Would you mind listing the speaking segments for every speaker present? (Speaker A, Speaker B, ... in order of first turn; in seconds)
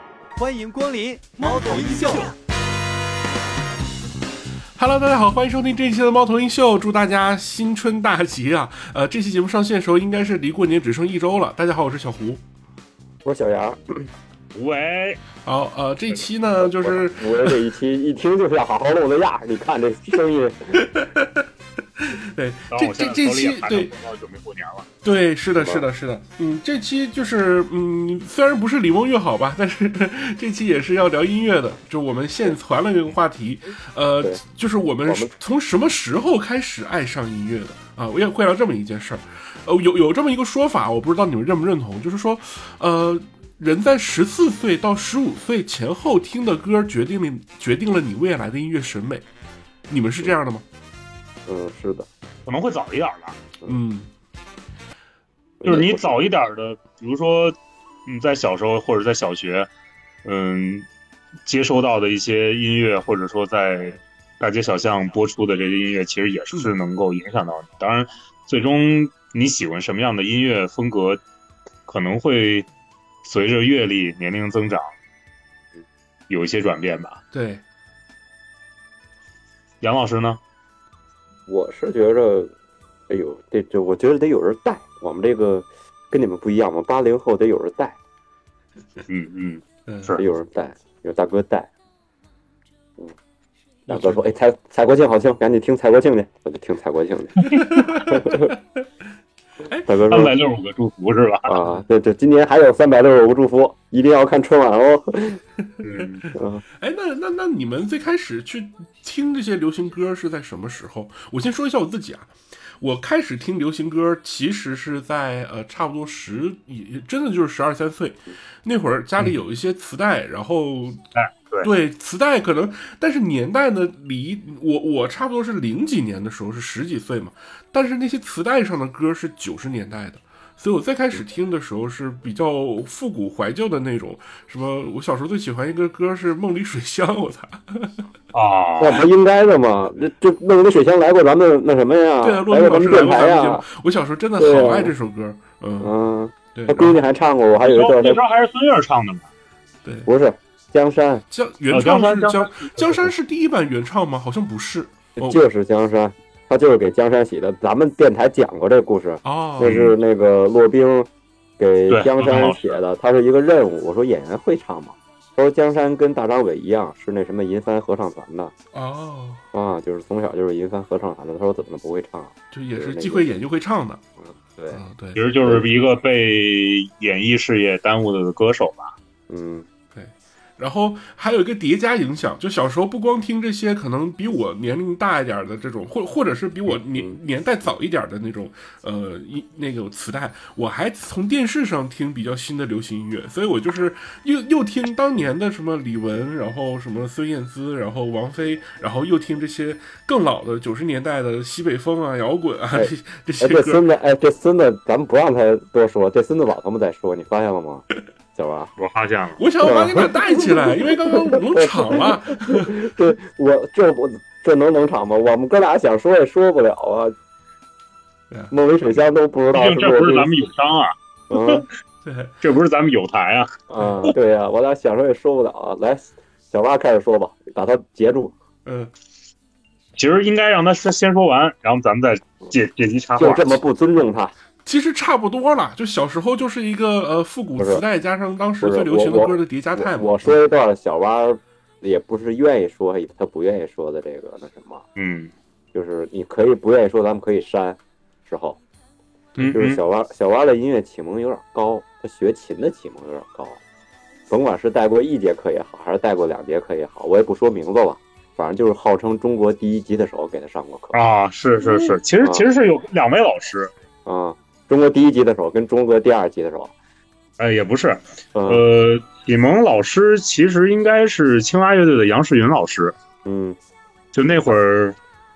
Speaker A: 0.4-2.3
Speaker B: 4.8-12.4, 15.4-17.6, 20.7-23.9, 25.0-49.2, 49.9-50.6, 53.6-54.1, 77.3-77.6, 89.9-90.1, 93.9-94.2, 97.5-98.8, 99.7-99.9, 106.8-121.0, 121.6-138.1, 142.2-145.9, 146.5-147.0, 151.3-155.4, 159.2-159.7, 168.7-169.4, 172.5-174.0, 174.7-175.2, 179.9-203.8, 209.4-212.8, 222.0-222.3, 228.6-228.9, 234.7-240.3
Speaker C: 13.2-14.1, 16.6-20.8, 25.6-25.8, 35.0-35.3, 51.5-52.1, 55.6-56.1, 81.5-82.5, 83.1-88.0, 90.2-91.7, 93.9-98.5, 99.8-100.3, 101.5-105.4, 106.3-106.6, 138.8-143.6, 144.4-144.9, 145.8-148.2, 150.1-151.2, 155.2-168.5, 169.5-173.3, 174.2-174.8, 179.3-179.7, 186.7-187.2, 202.7-208.7, 209.6-217.1, 218.5-220.3, 221.3-221.7, 223.7-228.3, 233.2-234.3, 237.6-237.8, 238.6-244.8, 245.7-248.6, 249.4-253.6, 254.3-261.0, 264.0-266.7, 268.3-268.6, 273.2-273.6
Speaker D: 14.5-15.2, 22.7-24.9, 52.5-53.4, 55.6-59.7, 60.2-60.9, 61.5-71.2, 71.9-72.7, 73.2-74.9, 76.3-77.2, 79.8-80.4, 89.1-90.2, 100.1-101.5, 105.8-106.2, 121.1-121.7, 138.3-139.1, 147.6-149.3, 151.7-152.7, 159.6-159.9, 161.9-162.7, 175.1-178.9, 208.8-209.4, 219.5-221.7, 222.4-223.5, 230.0-233.6, 244.9-245.3, 249.4-249.8, 260.9-263.7, 267.4-272.9, 274.1-275.0